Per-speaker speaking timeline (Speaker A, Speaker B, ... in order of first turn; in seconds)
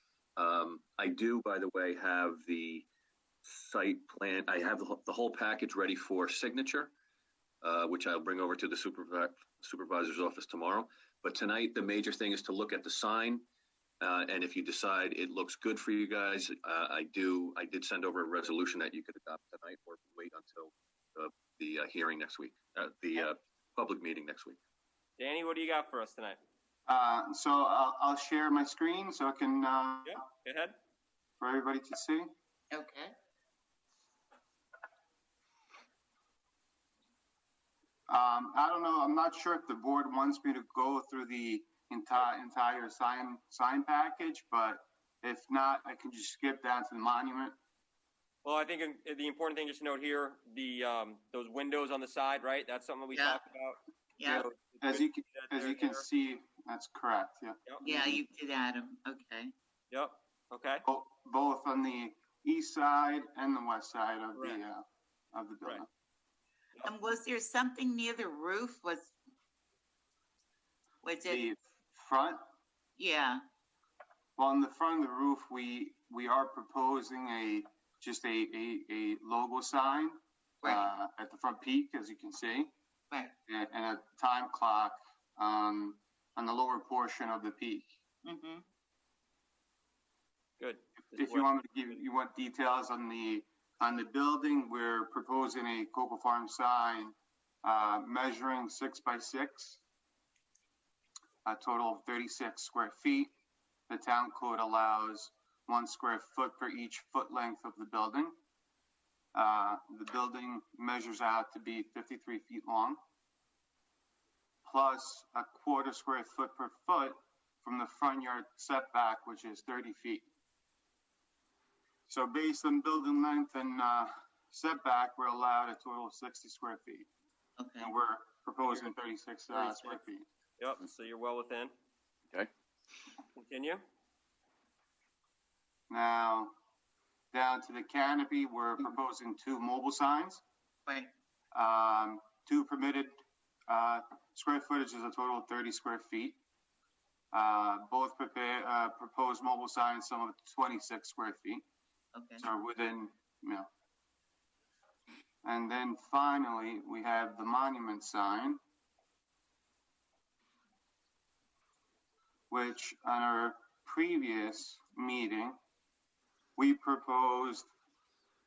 Speaker A: 0.4-2.9, 3.4-6.9, 7.6-13.5, 14.0-24.6
Speaker B: 25.2-26.4, 30.1-30.8, 48.4-56.0, 59.9-60.8, 64.4-64.6, 90.6-91.5, 130.6-131.7, 133.4-133.8
Speaker C: 26.9-30.2, 31.4-32.3, 38.1-47.5, 54.8-58.2, 60.9-65.9, 71.2-72.4, 74.4-82.7, 83.5-87.9, 91.2-99.8, 101.5-103.3, 103.9-108.3, 109.3-113.0, 114.7-120.3, 122.1-127.1, 127.8-130.3, 135.9-136.5, 137.3-140.4, 141.5-143.1, 143.7-146.4, 147.3-151.6, 152.4-153.7, 155.4-158.6, 162.5-165.6, 166.6-167.7
Speaker D: 32.7-33.1, 57.9-59.5, 66.9-69.1, 71.0-71.3, 73.0-73.4, 88.2-88.6, 127.6-127.9, 152.2-152.4